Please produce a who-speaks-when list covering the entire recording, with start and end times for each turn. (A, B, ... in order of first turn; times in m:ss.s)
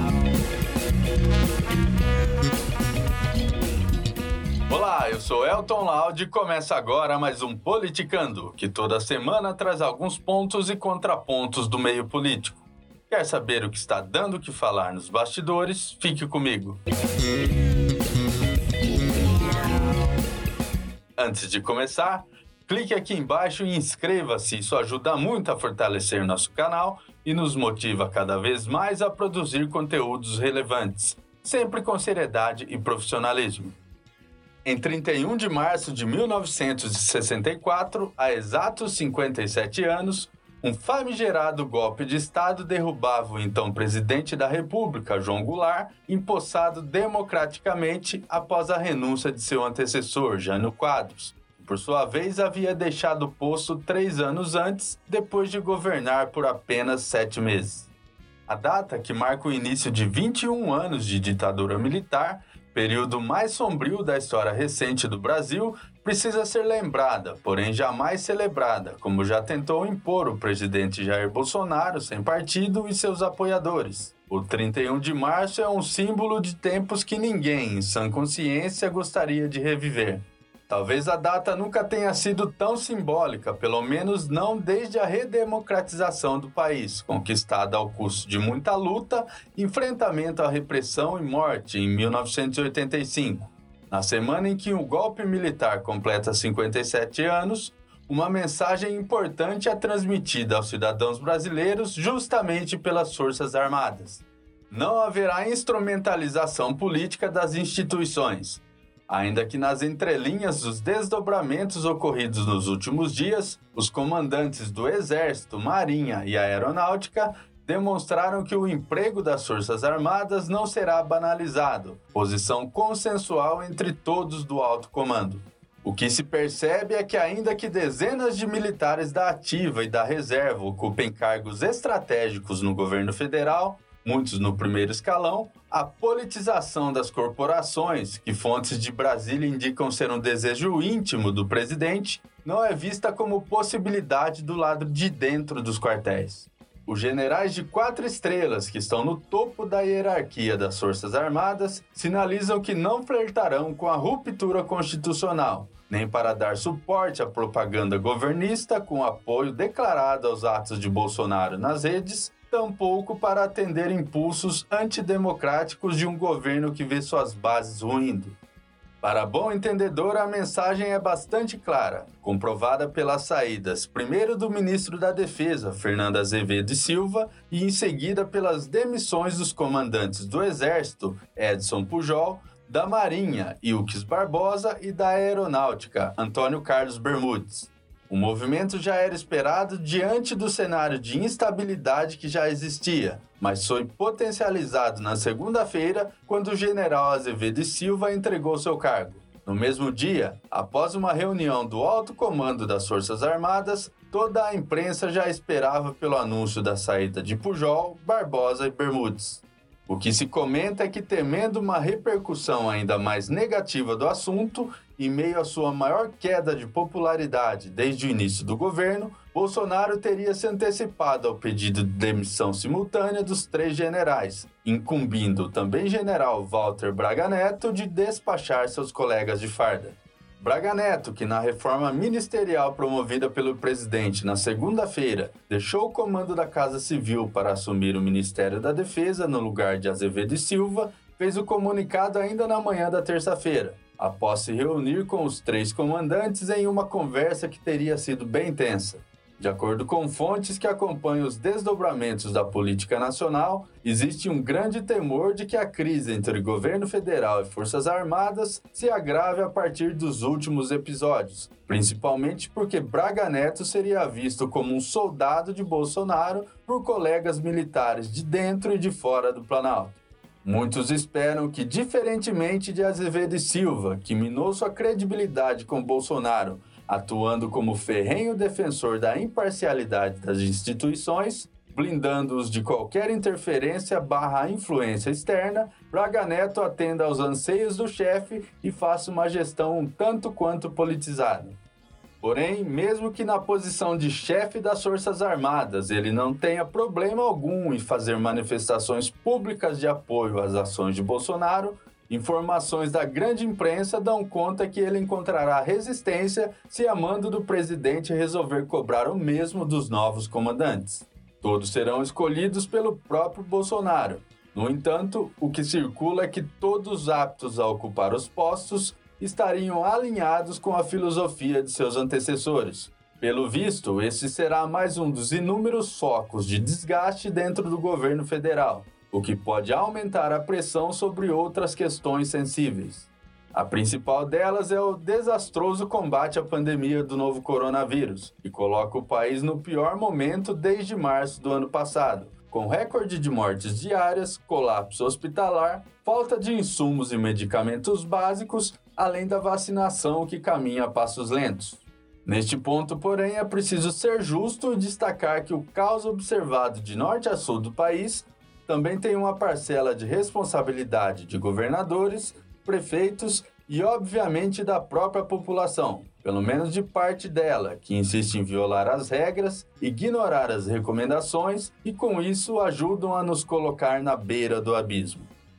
0:04.7-0:16.8 A
0:21.2-0:33.8 A
0:34.6-0:57.9 A
0:58.5-2:48.4 A
2:49.0-4:51.6 A
4:52.2-6:15.3 A